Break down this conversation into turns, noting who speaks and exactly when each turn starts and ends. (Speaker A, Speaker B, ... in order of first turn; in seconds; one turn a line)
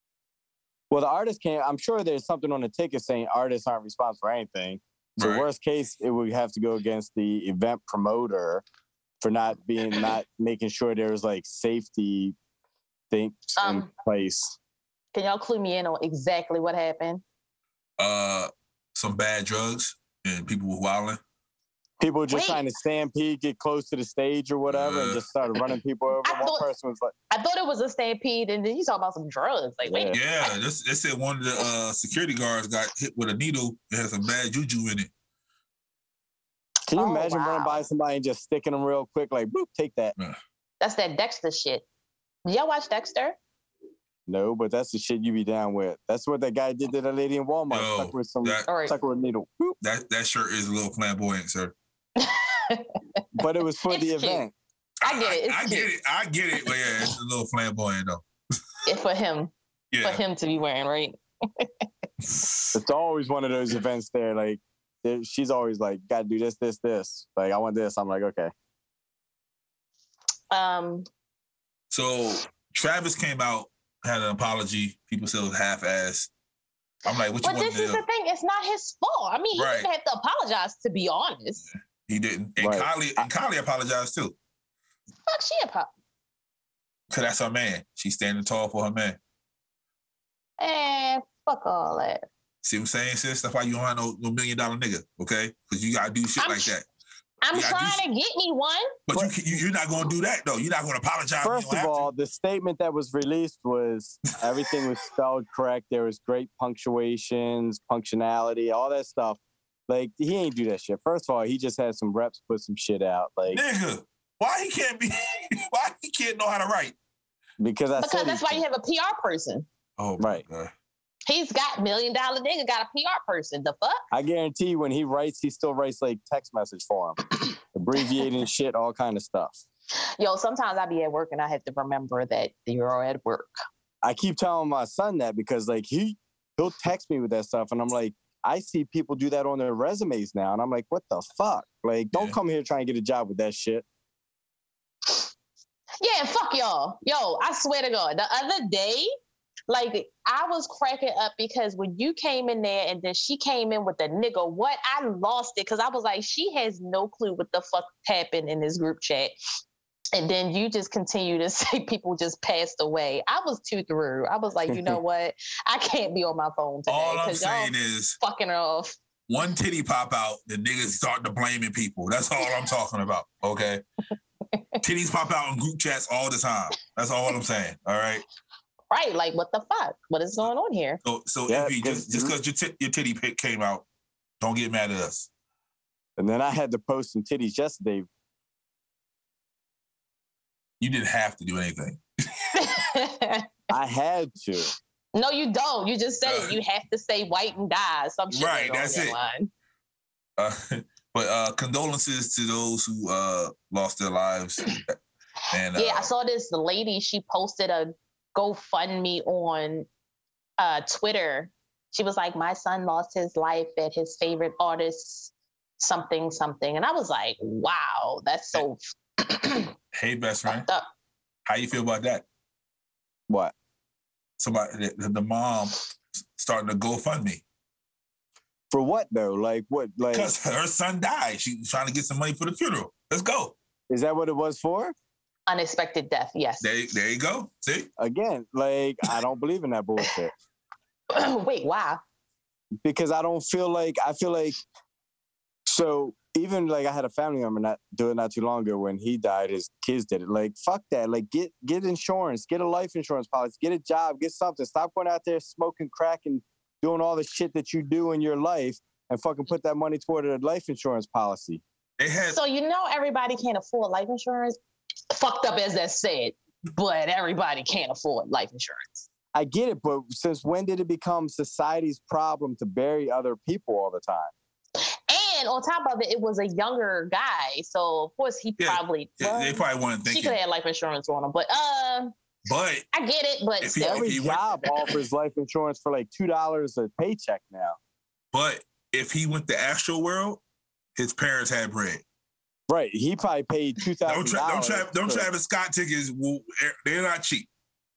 Speaker A: 0.9-8.6
Speaker B: 5.2-5.5
Speaker A: 9.2-12.3
Speaker A: 13.1-14.6
Speaker C: 13.6-13.9
Speaker C: 15.1-17.2
Speaker B: 18.0-21.2
Speaker A: 22.0-27.1
Speaker C: 22.3-22.6
Speaker B: 24.7-25.2
Speaker C: 26.2-26.7
Speaker C: 27.3-30.5
Speaker A: 29.8-30.2
Speaker B: 30.1-35.1
Speaker A: 36.9-40.1
Speaker C: 37.0-37.9
Speaker C: 40.8-41.9
Speaker C: 42.5-43.4
Speaker A: 44.3-49.8
Speaker B: 47.7-48.7
Speaker C: 48.7-49.0
Speaker B: 49.8-51.7
Speaker C: 52.1-53.2
Speaker A: 53.4-54.5
Speaker C: 53.9-54.4
Speaker C: 55.0-55.9
Speaker B: 55.0-58.2
Speaker C: 58.9-61.9
Speaker B: 59.9-60.2
Speaker B: 62.3-62.7
Speaker A: 62.7-68.5
Speaker C: 70.5-71.0
Speaker B: 71.9-76.3
Speaker B: 77.0-78.0
Speaker C: 77.4-81.6
Speaker B: 79.5-79.9
Speaker B: 82.1-84.3
Speaker A: 82.6-83.3
Speaker C: 85.3-85.9
Speaker B: 87.1-89.2
Speaker C: 90.6-92.2
Speaker B: 92.6-96.8
Speaker C: 96.4-96.7
Speaker C: 97.4-98.9
Speaker B: 97.5-98.0
Speaker B: 99.1-102.1
Speaker A: 101.4-113.6
Speaker B: 113.5-117.0
Speaker A: 117.6-118.6
Speaker C: 118.0-119.7
Speaker B: 120.0-120.7
Speaker A: 120.2-120.4
Speaker C: 121.3-124.0
Speaker A: 124.1-127.2
Speaker A: 127.7-129.6
Speaker C: 129.9-133.5
Speaker A: 134.0-143.8
Speaker C: 146.0-149.1
Speaker C: 149.7-159.3
Speaker C: 160.1-169.0
Speaker A: 164.7-165.0
Speaker B: 166.9-168.2
Speaker B: 169.3-173.8
Speaker B: 174.8-178.2
Speaker C: 178.9-181.0
Speaker B: 181.0-183.8
Speaker A: 181.5-182.3
Speaker B: 184.4-185.3
Speaker A: 186.2-188.1
Speaker B: 190.8-192.0
Speaker C: 192.5-193.5
Speaker A: 193.7-194.7
Speaker C: 195.1-199.5
Speaker B: 196.2-196.6
Speaker B: 198.3-199.2
Speaker B: 200.4-205.0
Speaker B: 205.5-206.1
Speaker C: 205.8-209.9
Speaker C: 210.6-219.7
Speaker B: 219.9-220.7
Speaker C: 220.5-220.9
Speaker B: 221.5-222.2
Speaker B: 224.4-227.4
Speaker A: 228.7-230.3
Speaker B: 230.1-233.5
Speaker A: 233.9-234.9
Speaker C: 235.5-236.7
Speaker B: 236.6-237.9
Speaker A: 238.0-240.3
Speaker C: 241.1-242.0
Speaker A: 242.8-244.6
Speaker A: 245.7-261.6
Speaker B: 262.0-262.4
Speaker C: 262.2-264.6
Speaker C: 265.1-269.1
Speaker A: 269.3-274.3
Speaker C: 274.8-282.1
Speaker B: 278.6-280.4
Speaker B: 282.5-282.9
Speaker C: 282.9-284.1
Speaker B: 283.6-284.5
Speaker A: 283.8-287.8
Speaker B: 288.3-290.4
Speaker B: 291.0-292.0
Speaker A: 292.7-295.3
Speaker B: 294.1-297.5